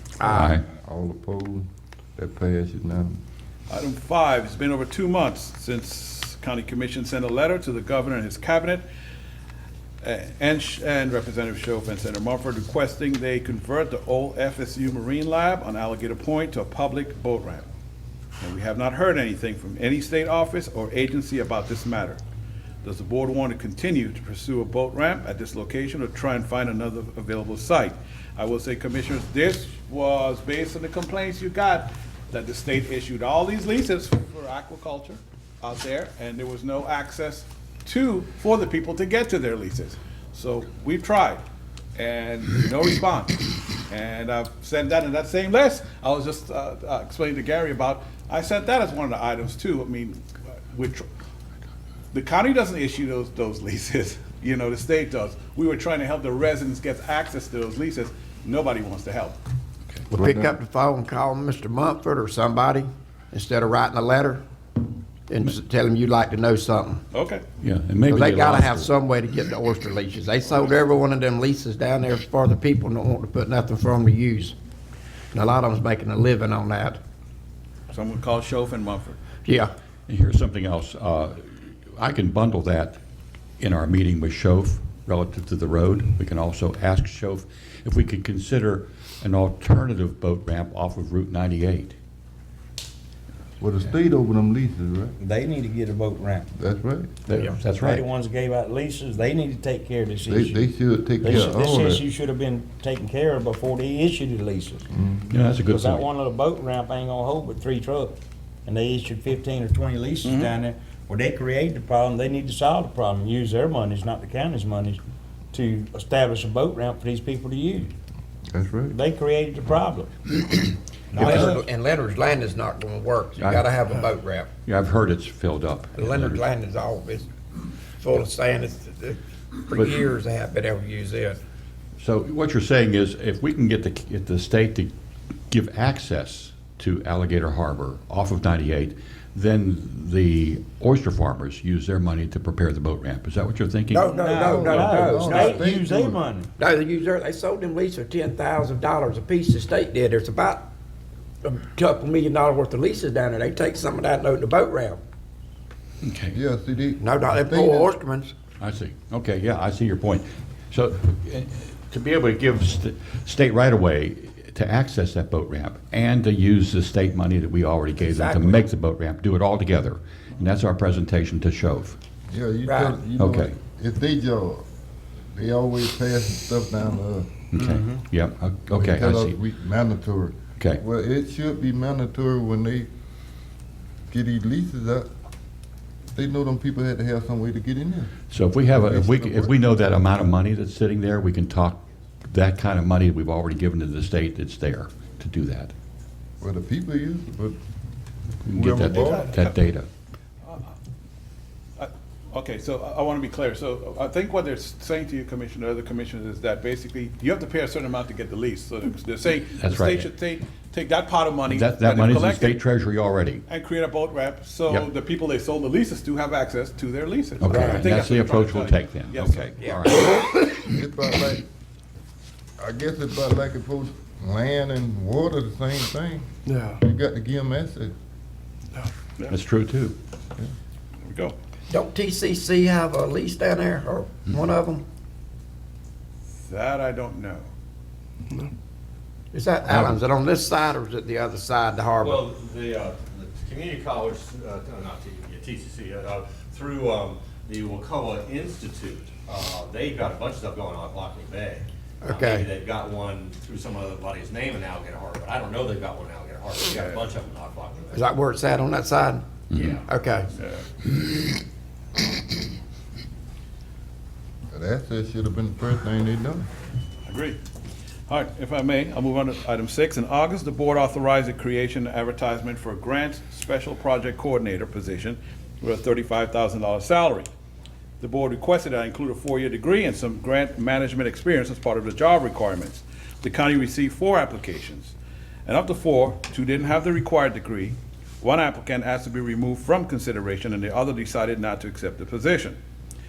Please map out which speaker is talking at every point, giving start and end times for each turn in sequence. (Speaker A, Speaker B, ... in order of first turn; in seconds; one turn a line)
Speaker A: 0.2-0.5
Speaker B: 0.3-0.6
Speaker C: 0.3-3.2
Speaker D: 3.7-8.8
Speaker D: 10.0-17.7
Speaker D: 18.4-22.2
Speaker D: 22.8-41.4
Speaker D: 42.0-51.0
Speaker D: 52.1-59.4
Speaker A: 60.1-64.4
Speaker C: 60.1-60.5
Speaker A: 65.3-67.0
Speaker D: 67.1-67.4
Speaker B: 67.6-68.9
Speaker A: 68.1-74.5
Speaker A: 75.3-77.0
Speaker D: 77.9-79.2
Speaker A: 79.4-79.7
Speaker B: 80.1-83.0
Speaker B: 83.6-92.0
Speaker C: 93.6-95.2
Speaker E: 95.2-96.5
Speaker C: 96.5-97.1
Speaker B: 97.3-98.0
Speaker E: 97.8-100.7
Speaker C: 100.3-102.0
Speaker E: 101.2-104.8
Speaker C: 104.9-105.4
Speaker B: 105.3-106.0
Speaker E: 105.7-108.1
Speaker E: 108.7-115.0
Speaker D: 110.2-110.5
Speaker E: 115.5-117.9
Speaker C: 118.5-118.9
Speaker E: 118.9-121.6
Speaker A: 121.1-124.5
Speaker B: 123.4-123.7
Speaker B: 124.7-126.4
Speaker A: 126.0-127.3
Speaker A: 128.0-131.4
Speaker B: 129.7-130.0
Speaker B: 132.0-134.9
Speaker B: 135.5-144.1
Speaker A: 143.9-145.6
Speaker E: 144.0-146.5
Speaker C: 144.3-146.2
Speaker A: 146.6-150.7
Speaker A: 151.4-155.0
Speaker B: 156.0-156.4
Speaker C: 156.3-158.0
Speaker A: 157.0-158.3
Speaker B: 158.6-172.0
Speaker A: 168.0-168.6
Speaker C: 172.3-174.6
Speaker A: 172.7-172.9
Speaker B: 173.2-173.5
Speaker C: 175.3-177.3
Speaker B: 177.5-179.3
Speaker C: 178.7-182.9
Speaker C: 184.1-185.1
Speaker C: 186.1-188.1
Speaker B: 188.3-195.7
Speaker C: 188.7-189.5
Speaker C: 196.4-197.6
Speaker B: 198.4-199.9
Speaker C: 198.5-199.3
Speaker D: 198.9-199.5
Speaker D: 201.8-212.6
Speaker B: 209.6-210.1
Speaker B: 211.5-213.4
Speaker D: 213.5-219.5
Speaker B: 217.4-220.3
Speaker A: 217.5-217.8
Speaker A: 219.6-219.8
Speaker C: 220.5-221.4
Speaker C: 222.6-227.9
Speaker B: 229.3-229.9
Speaker D: 231.0-231.3
Speaker A: 231.7-234.8
Speaker D: 236.4-237.4
Speaker A: 239.3-242.3
Speaker F: 242.0-258.0
Speaker A: 252.0-252.5
Speaker A: 257.9-259.2
Speaker F: 259.5-259.8
Speaker A: 259.9-260.3
Speaker C: 264.5-266.5
Speaker D: 267.1-267.4
Speaker D: 268.1-277.3
Speaker D: 278.0-284.9
Speaker D: 285.4-292.6